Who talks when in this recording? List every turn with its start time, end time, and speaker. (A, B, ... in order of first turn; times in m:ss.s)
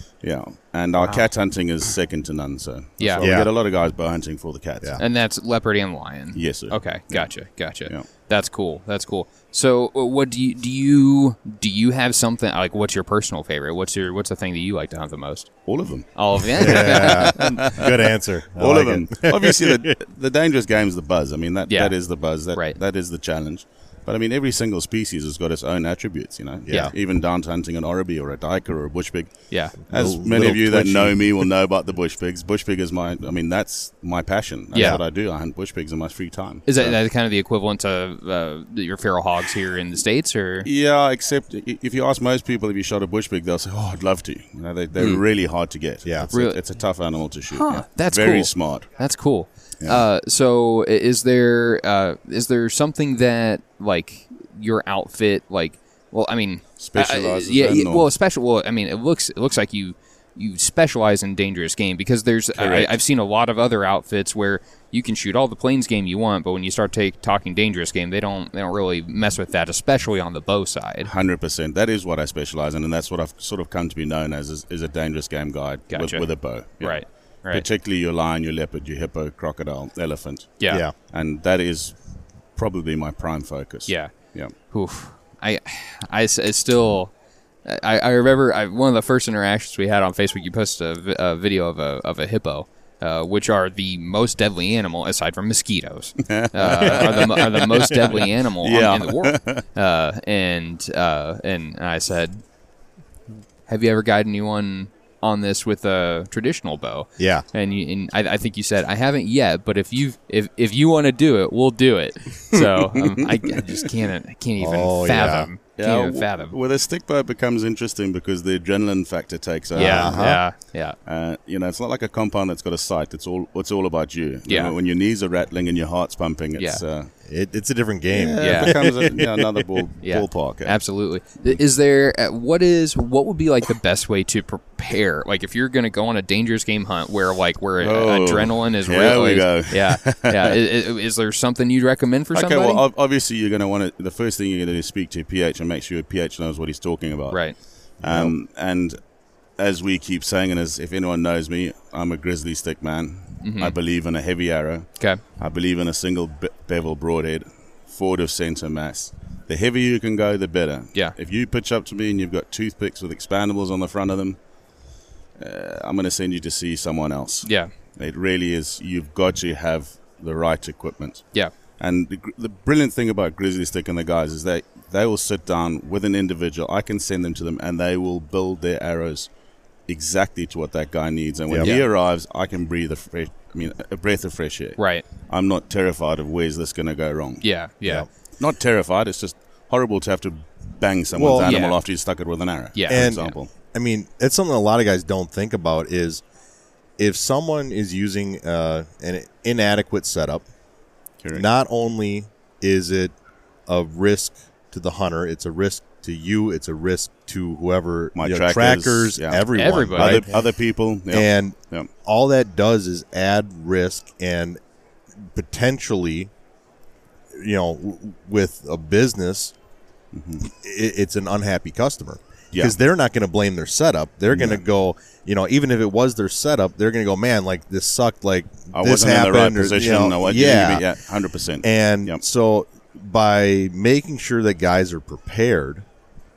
0:00.2-0:05.0 A
0:01.0-0:01.2 B
0:03.0-0:03.4 B
0:03.2-0:03.5 C
0:05.0-0:17.6 B
0:06.3-0:07.3 A
0:15.6-0:37.0 A
0:16.6-0:19.9 C
0:21.7-0:22.8 B
0:26.7-0:26.9 C
0:26.7-0:26.9 B
0:29.5-0:29.8 B
0:29.9-0:31.5 C
0:34.7-0:35.0 B
0:34.7-0:35.0 C
0:36.6-0:40.7 B
0:40.6-0:48.9 A
0:46.0-0:46.3 C
0:46.3-0:46.6 B
0:47.5-1:11.1 B
0:56.8-0:58.1 A
1:02.5-1:03.0 A
1:11.0-1:20.6 A
1:15.9-1:17.6 B
1:20.6-1:20.8 B
1:20.7-1:20.9 C
1:21.1-1:22.0 A
1:22.6-1:24.5 A
1:23.9-1:27.1 B
1:27.6-1:42.4 B
1:36.2-1:39.6 A
1:43.7-1:56.6 B
1:47.2-1:47.4 C
1:53.0-1:53.6 A
1:54.6-1:55.5 C
1:55.8-2:00.3 A
1:59.7-2:01.0 B
1:59.8-2:00.4 C
2:01.0-2:07.1 A
2:04.5-2:04.7 B
2:06.6-2:06.8 B
2:07.2-2:09.6 C
2:08.1-2:10.8 A
2:08.4-2:08.8 B
2:10.0-2:22.8 B
2:17.8-2:20.5 A
2:22.3-2:29.0 A
2:27.3-2:27.6 B
2:28.0-2:28.3 C
2:29.6-2:44.4 A
2:33.4-2:33.7 B
2:45.4-2:51.3 A
2:47.4-2:47.7 B
2:51.8-2:59.3 A
2:59.9-3:07.4 A
3:01.5-3:01.8 C
3:01.6-3:01.8 B
3:04.8-3:05.0 B
3:07.4-3:08.0 B
3:08.4-3:13.5 A
3:11.1-3:11.5 C
3:11.4-3:11.8 B
3:12.7-3:13.3 B
3:12.9-3:16.2 C
3:17.0-3:20.4 C
3:21.2-3:21.4 A
3:21.3-3:23.1 C
3:23.7-3:30.3 C
3:28.1-3:31.9 A
3:29.5-3:30.3 B
3:31.1-3:34.6 C
3:35.3-3:36.3 C
3:37.3-3:39.5 C
3:40.1-3:40.5 A
3:40.4-3:50.9 C
3:44.3-3:44.6 A
3:48.7-3:52.2 A
3:51.6-3:55.8 C